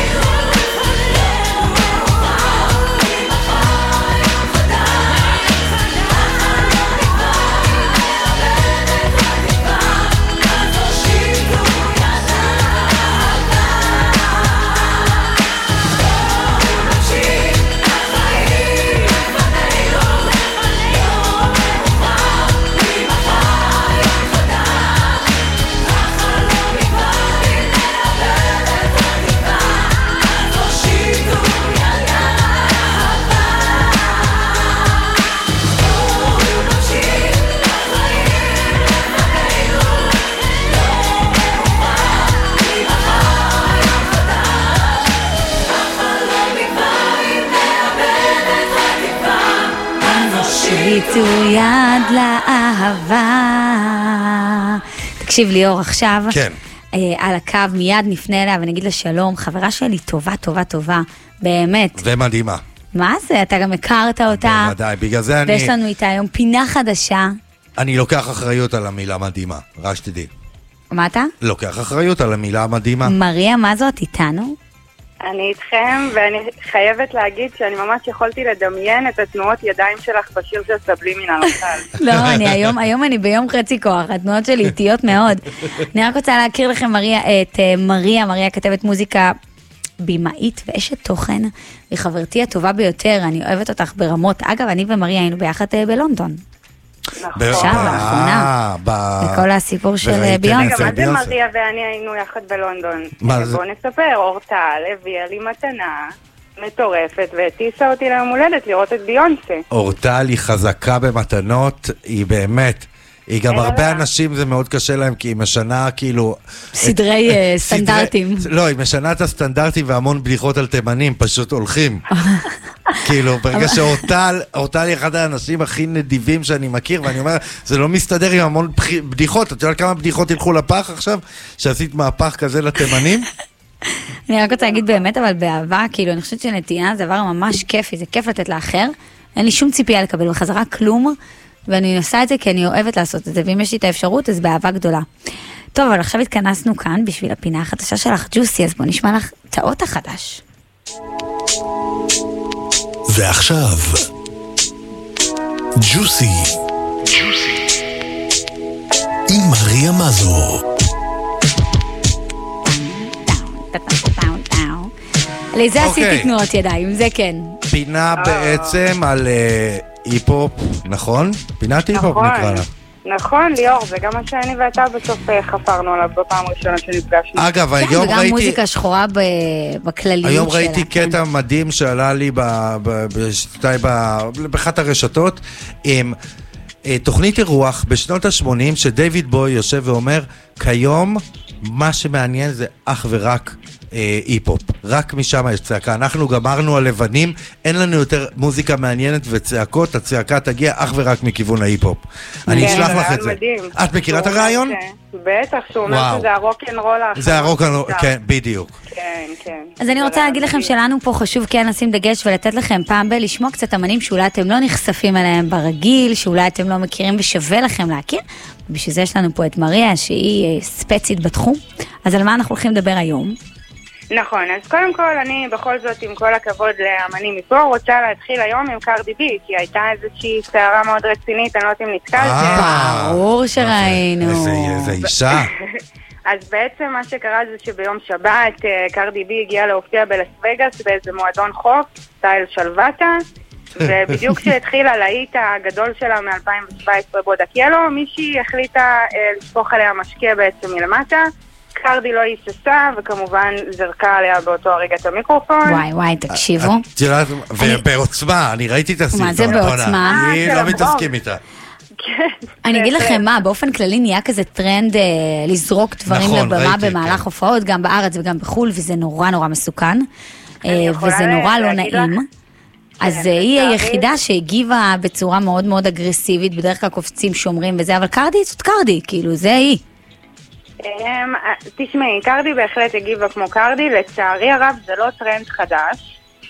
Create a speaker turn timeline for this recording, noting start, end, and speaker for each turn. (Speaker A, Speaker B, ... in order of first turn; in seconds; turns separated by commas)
Speaker A: 50.0-56.4, Speaker B: 56.3-56.6, Speaker A: 56.9-62.0, Speaker B: 62.0-62.6, Speaker A: 62.9-64.7, Speaker B: 64.3-65.7, Speaker A: 65.5-67.3, Speaker B: 67.8-70.3, Speaker A: 70.9-71.3, Speaker B: 71.4-73.1, Speaker A: 73.0-74.5, Speaker C: 75.2-81.8, Speaker A: 82.0-89.3, Speaker B: 82.1-82.7, Speaker A: 90.0-96.4, Speaker C: 97.2-98.1, Speaker B: 97.4-99.5, Speaker A: 97.5-98.5, Speaker A: 99.2-101.0, Speaker B: 100.0-101.3, Speaker C: 100.5-106.0, Speaker B: 103.2-103.6, Speaker C: 106.6-109.6, Speaker B: 109.7-122.0, Speaker C: 113.5-114.0, Speaker A: 116.7-118.5, Speaker A: 122.1-122.5, Speaker B: 123.0-133.2, Speaker A: 123.5-124.0, Speaker A: 134.3-141.2, Speaker A: 141.7-145.1, Speaker A: 145.7-150.4, Speaker D: 153.1-154.0, Speaker D: 155.8-156.5, Speaker D: 159.3-160.6, Speaker A: 163.2-164.9, Speaker A: 165.5-167.6, Speaker B: 165.8-166.3, Speaker B: 167.7-172.7, Speaker C: 168.2-168.8, Speaker C: 171.9-177.5, Speaker B: 177.4-178.6, Speaker A: 177.8-181.2, Speaker B: 180.2-186.2, Speaker B: 186.8-204.7, Speaker A: 202.5-202.9, Speaker C: 202.5-208.1, Speaker B: 205.9-206.3, Speaker B: 207.2-208.7, Speaker C: 208.9-210.7, Speaker A: 209.8-223.4, Speaker C: 224.1-232.6, Speaker B: 232.2-235.5, Speaker A: 232.3-235.1, Speaker C: 236.3-243.2, Speaker C: 243.8-255.8, Speaker A: 255.6-256.9, Speaker B: 256.3-261.4, Speaker A: 257.6-257.8, Speaker A: 259.1-260.9, Speaker C: 259.4-261.1, Speaker C: 262.0-263.2, Speaker A: 262.6-270.1, Speaker B: 266.1-267.2, Speaker A: 270.6-272.3, Speaker C: 270.6-272.1, Speaker A: 273.0-279.8, Speaker C: 273.0-274.1, Speaker C: 280.8-286.1